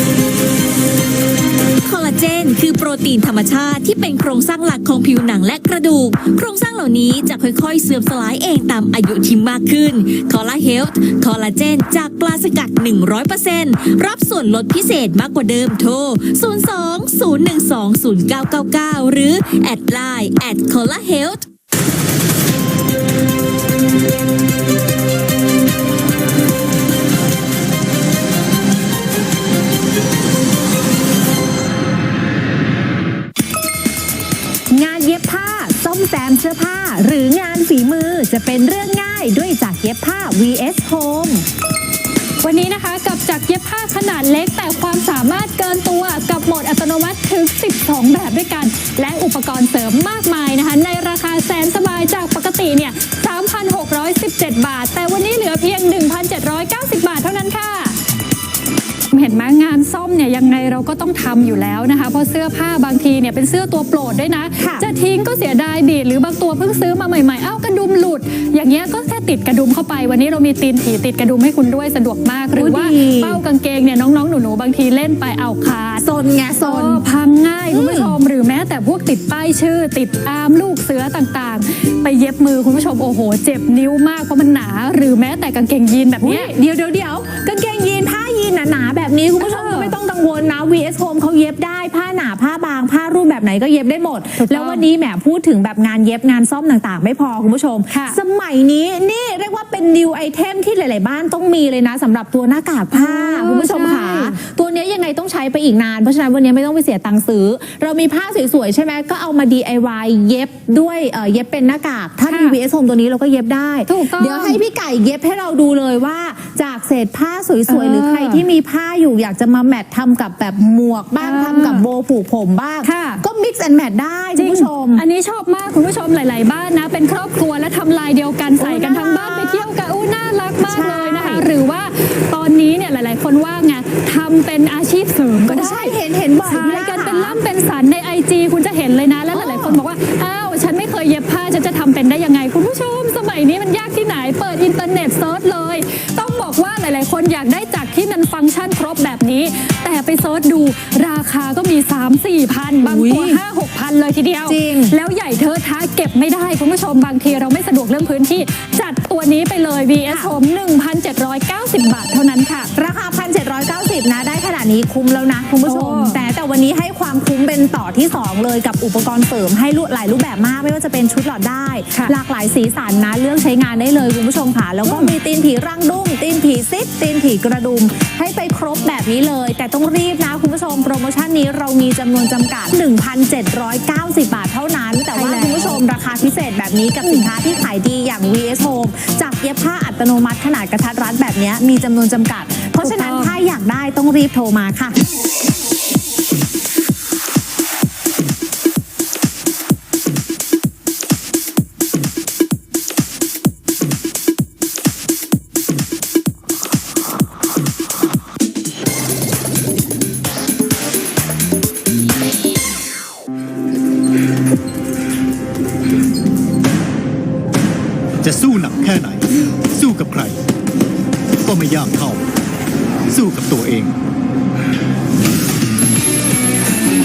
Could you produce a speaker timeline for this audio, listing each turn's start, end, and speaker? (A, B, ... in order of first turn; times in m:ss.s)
0:01.8-0:21.5 A
0:34.7-0:41.4 B
0:42.4-0:58.0 C
0:59.1-1:16.1 C
1:04.6-1:04.9 B
1:12.5-1:13.4 B
1:16.0-1:17.0 B
1:16.6-1:26.5 C
1:17.7-1:18.2 B
1:26.2-2:05.0 B
1:29.4-1:30.0 C
1:34.4-1:34.9 C
1:37.9-1:38.2 C
1:42.9-1:44.4 C
1:52.3-1:52.6 C
1:53.9-1:54.6 C
1:57.7-1:58.4 C
2:01.2-2:01.9 C
2:02.8-2:03.2 C
2:04.4-2:42.7 C
2:08.6-2:09.7 B
2:10.6-2:11.5 B
2:15.4-2:17.4 B
2:19.3-2:19.8 B
2:32.8-2:33.4 B
2:34.4-2:35.0 B
2:40.1-2:40.3 B
2:42.7-3:15.0 B
2:45.6-2:46.2 C
2:54.8-2:55.2 C
3:05.1-3:05.8 C
3:07.0-3:07.3 C
3:12.8-3:13.3 C
3:38.2-3:40.4 D
3:41.4-3:42.2 D
3:43.1-3:43.9 D